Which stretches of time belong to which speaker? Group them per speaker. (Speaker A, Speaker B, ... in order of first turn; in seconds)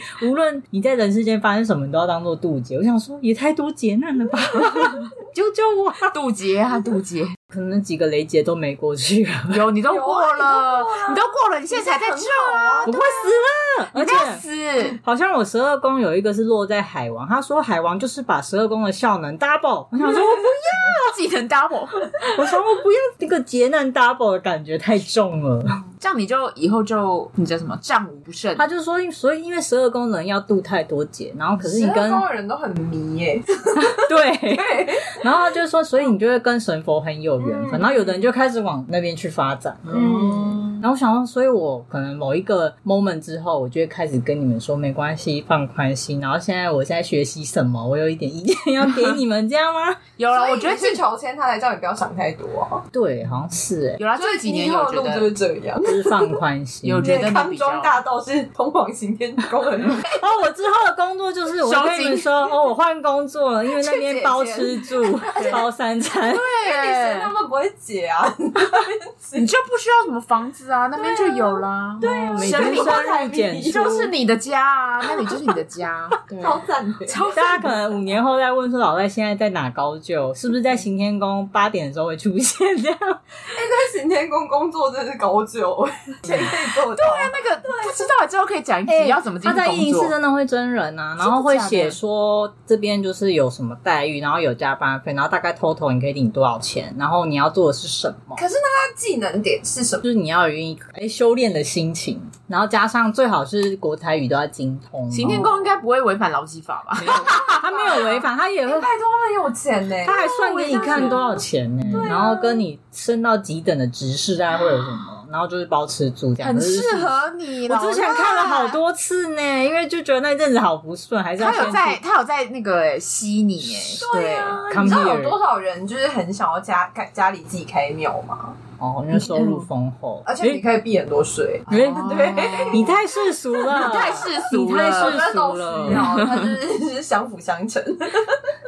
Speaker A: 0.2-6.1, 7.5-9.6, 12.9-14.4, 14.9-21.1, 22.2-25.8, 28.6-32.2, 33.8-50.0, 52.9-54.0, 55.8-57.3, 60.0-66.5, 72.0-74.1, 77.3-83.2, 86.2-86.5, 88.9-98.4, 100.0-105.6, 107.0-108.9, 110.0-122.0, 124.7-125.4, 128.8-130.6, 131.7-136.2
Speaker B: 6.1-7.4, 9.5-13.3, 13.9-15.0, 20.6-22.1, 26.0-28.7, 40.0-40.8, 50.2-51.0, 54.0-55.3, 56.8-58.0, 61.6-62.3, 65.3-65.6, 66.3-67.3, 69.4-73.1, 73.7-77.8, 86.3-90.1, 91.2-92.0, 105.1-107.6, 110.6-111.1, 116.4-118.8, 121.4-124.6, 129.3-129.7, 131.7-133.0, 133.7-136.5
Speaker C: 9.9-13.0, 31.6-35.2, 37.4-38.2, 39.9-40.7, 50.3-52.9, 54.2-56.4, 57.0-60.2, 63.8-65.6, 66.6-69.5, 71.0-74.0, 76.4-77.2, 83.5-88.0, 98.4-100.1, 107.0-111.3, 111.9-112.7, 123.9-128.6, 130.2-133.0, 134.6-138.5